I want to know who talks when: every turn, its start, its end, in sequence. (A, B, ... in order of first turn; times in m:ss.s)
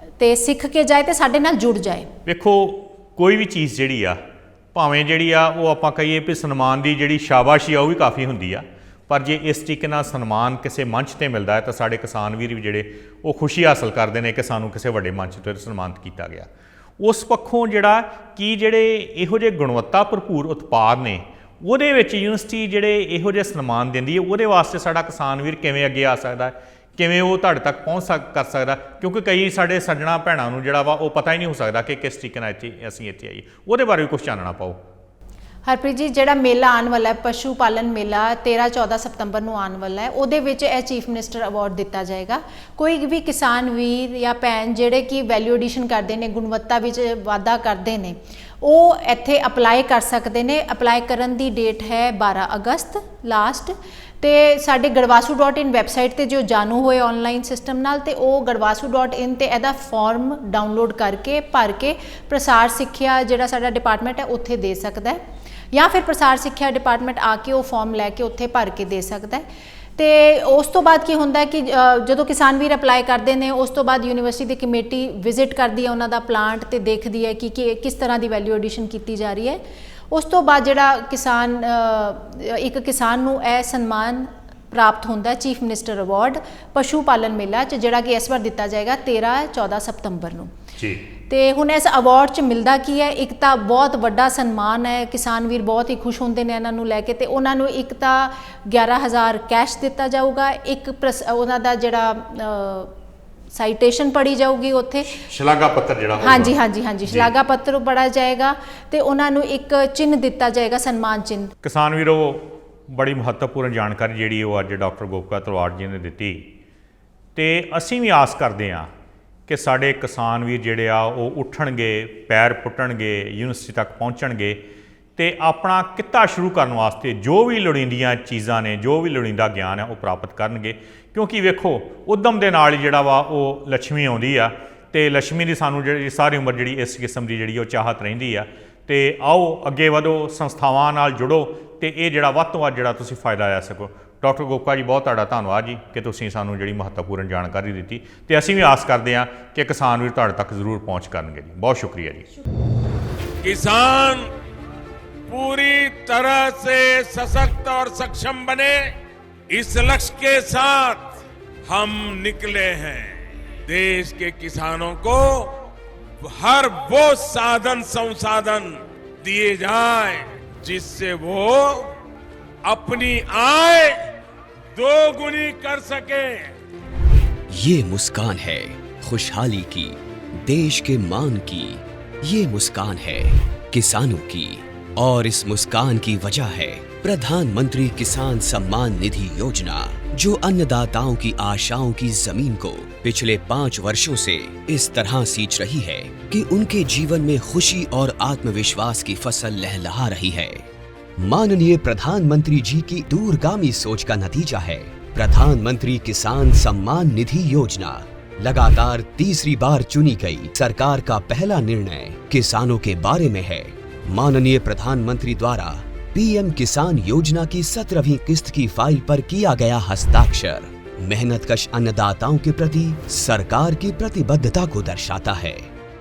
0:00.2-0:02.1 A
0:02.2-0:04.2 B
0:04.7-0:34.8 B
0:35.6-1:05.2 A
1:05.7-1:09.4 A
1:10.0-1:30.5 A
1:30.8-1:31.0 B
1:31.3-1:42.9 A
1:43.5-1:45.1 A
1:45.1-1:47.3 B
1:46.2-1:51.5 A
1:51.6-1:56.5 B
1:57.3-1:58.9 B
1:59.5-2:04.6 B
2:05.2-2:32.3 B
2:33.4-2:34.3 C
2:35.3-2:38.9 C
2:39.5-2:45.5 C
2:46.2-2:51.9 C
2:52.6-2:54.0 C
2:54.7-2:56.5 C
2:57.5-3:20.6 D
3:21.2-3:45.7 D